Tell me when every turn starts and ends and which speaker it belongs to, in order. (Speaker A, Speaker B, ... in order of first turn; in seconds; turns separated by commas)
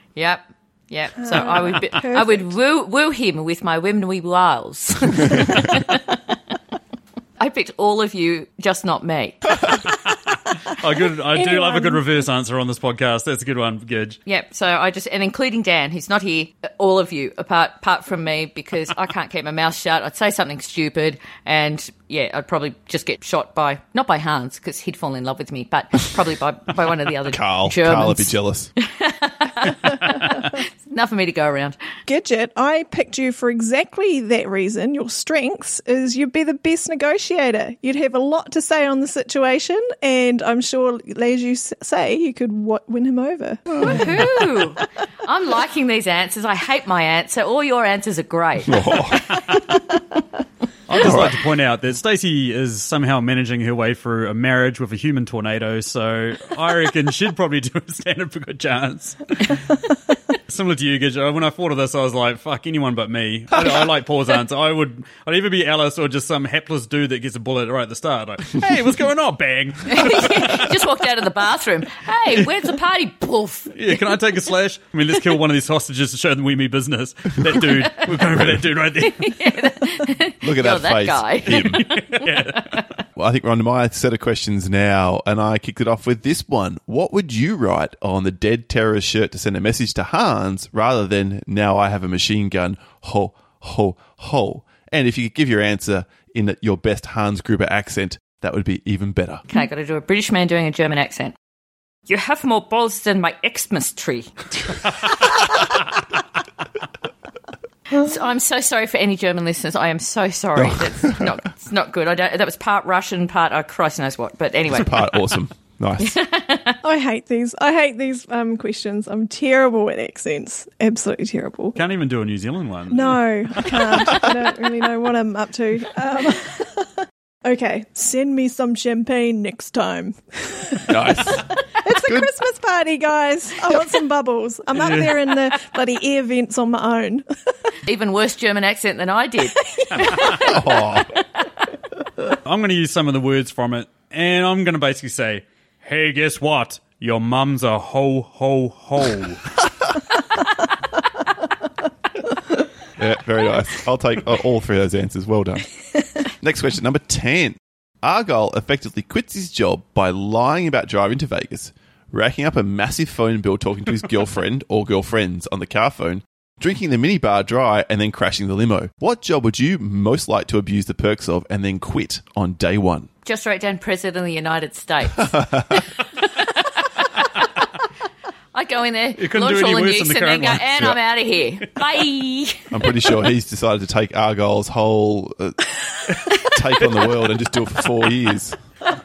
Speaker A: 0.1-6.2, Speaker B: 1.2-2.5, Speaker A: 7.4-9.8, Speaker C: 10.7-14.2, Speaker B: 11.3-12.0, Speaker A: 14.2-31.8, Speaker D: 27.3-28.7, Speaker B: 32.1-44.0, Speaker D: 43.7-44.0, Speaker A: 43.8-49.4, Speaker D: 48.7-49.2, Speaker C: 50.9-59.6, Speaker D: 50.9-51.4, Speaker C: 60.5-70.7, Speaker A: 69.9-74.0, Speaker C: 73.7-79.5, Speaker A: 77.5-78.1, Speaker A: 79.0-82.8, Speaker D: 80.4-81.9, Speaker C: 81.7-82.8, Speaker D: 83.2-99.4, Speaker A: 99.5-101.3, Speaker A: 102.1-104.8, Speaker A: 107.9-115.0, Speaker D: 110.5-111.3, Speaker D: 114.7-116.2, Speaker A: 116.0-116.8, Speaker B: 116.8-121.8, Speaker C: 121.7-124.4, Speaker B: 122.9-137.2, Speaker D: 130.9-132.3, Speaker C: 134.7-135.2, Speaker A: 137.8-140.5, Speaker B: 139.7-140.6, Speaker D: 140.3-141.1, Speaker C: 142.4-149.6, Speaker D: 153.0-155.7, Speaker D: 156.2-173.1, Speaker A: 173.2-176.8, Speaker D: 175.2-175.8, Speaker A: 178.5-183.1, Speaker C: 179.2-181.0, Speaker D: 182.7-185.6, Speaker D: 186.4-188.6